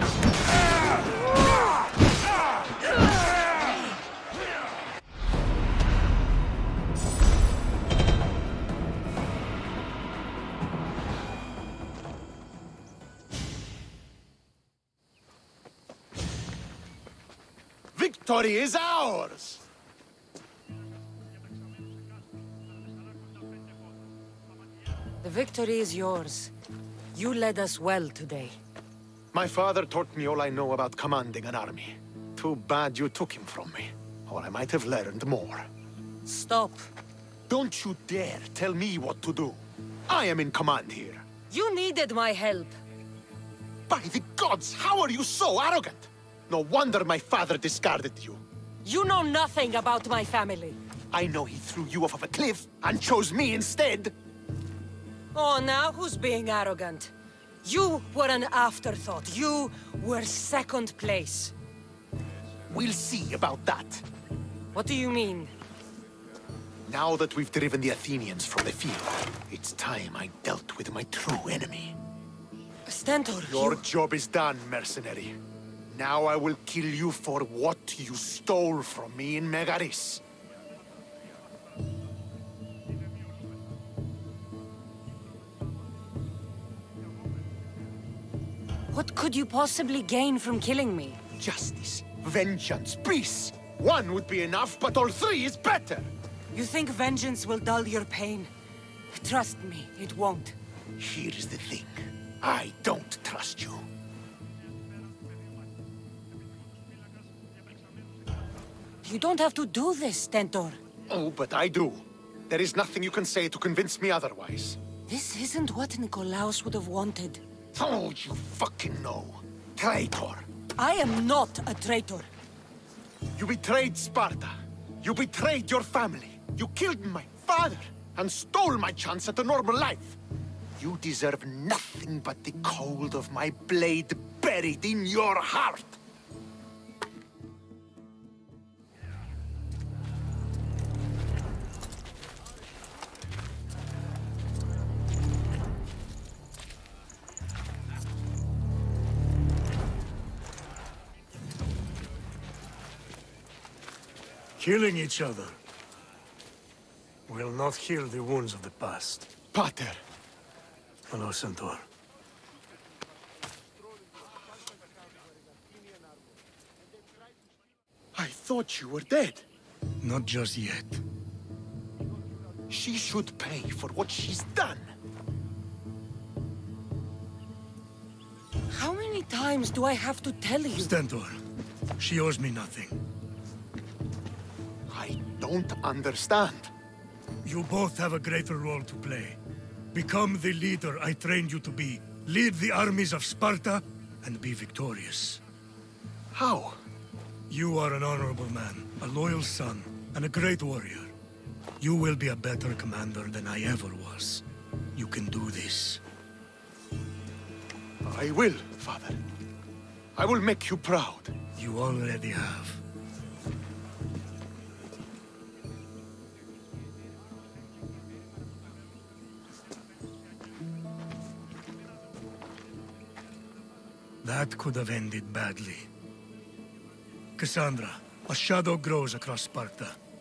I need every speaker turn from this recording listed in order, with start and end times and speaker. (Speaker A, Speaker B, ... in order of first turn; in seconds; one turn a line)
Speaker A: 17.9-19.6
Speaker B: 25.2-26.5
Speaker B: 27.1-28.6
Speaker A: 29.3-35.7
Speaker B: 36.2-36.9
Speaker A: 37.5-41.2
Speaker B: 41.5-42.8
Speaker A: 43.9-48.4
Speaker B: 48.8-50.8
Speaker A: 51.1-54.1
Speaker B: 55.3-57.1
Speaker B: 57.6-61.5
Speaker A: 62.7-64.0
Speaker B: 64.7-65.5
Speaker A: 66.9-72.0
Speaker B: 72.8-73.8
Speaker A: 73.5-80.2
Speaker B: 88.9-91.2
Speaker A: 91.4-96.1
Speaker B: 96.5-98.5
Speaker B: 99.1-100.5
Speaker A: 101.0-103.9
Speaker B: 109.0-110.8
Speaker A: 111.1-114.8
Speaker B: 115.1-117.4
Speaker A: 117.7-120.5
Speaker B: 120.8-122.3
Speaker A: 123.3-130.2
Speaker A: 130.8-136.0
Speaker C: 154.6-155.6
Speaker C: 157.3-159.3
Speaker A: 159.5-160.0
Speaker C: 161.1-161.8
Speaker A: 168.1-169.5
Speaker C: 170.0-171.0
Speaker A: 172.7-174.9
Speaker B: 178.7-180.9
Speaker C: 180.8-181.4
Speaker C: 182.0-183.0
Speaker A: 184.9-186.7
Speaker C: 187.4-189.4
Speaker C: 189.9-195.4
Speaker A: 196.3-196.8
Speaker C: 197.5-201.1
Speaker C: 201.8-204.4
Speaker C: 204.9-206.0
Speaker A: 208.0-209.2
Speaker A: 210.1-211.3
Speaker C: 211.6-212.8
Speaker C: 224.2-225.9
Speaker C: 227.4-229.9